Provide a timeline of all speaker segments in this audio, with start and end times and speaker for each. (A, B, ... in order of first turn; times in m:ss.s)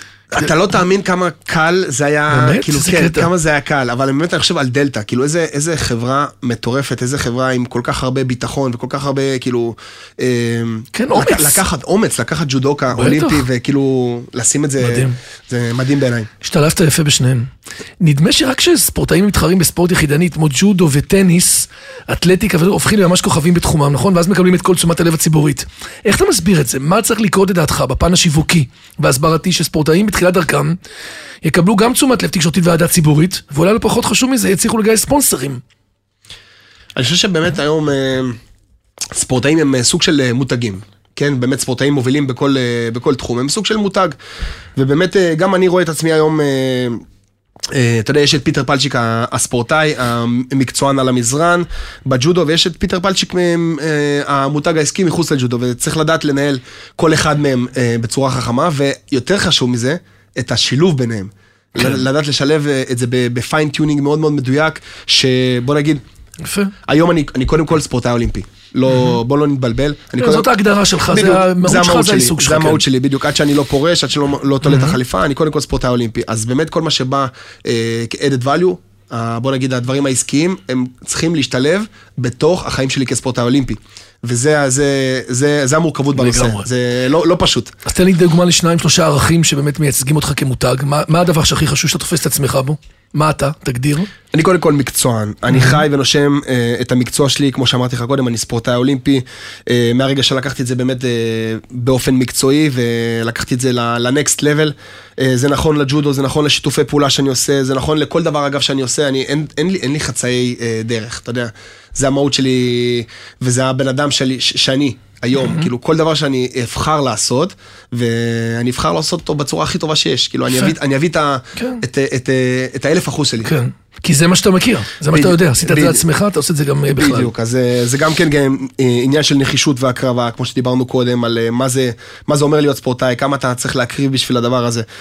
0:00.3-0:16.3 A
0:02.3-0:03.3 B
0:10.9-0:11.6 B
0:12.9-0:13.4 B
0:14.8-0:15.2 B
0:16.4-0:17.5 B
0:18.0-0:30.8 B
0:31.4-0:35.6 B
0:37.0-0:38.4 A
0:39.1-0:44.2 A
0:44.8-0:47.0 A
0:47.7-1:06.0 A
1:06.4-1:06.7 B
1:06.8-1:10.5 A
1:10.2-1:12.8 B
1:11.1-1:27.7 A
1:14.6-1:15.0 B
1:26.2-1:26.7 B
1:27.8-1:34.1 B
1:34.3-2:03.5 A
1:35.5-1:35.8 B
1:55.4-1:55.7 B
2:00.5-2:00.8 B
2:01.6-2:01.8 B
2:03.4-2:07.3 B
2:05.1-2:06.0 A
2:07.0-2:14.9 A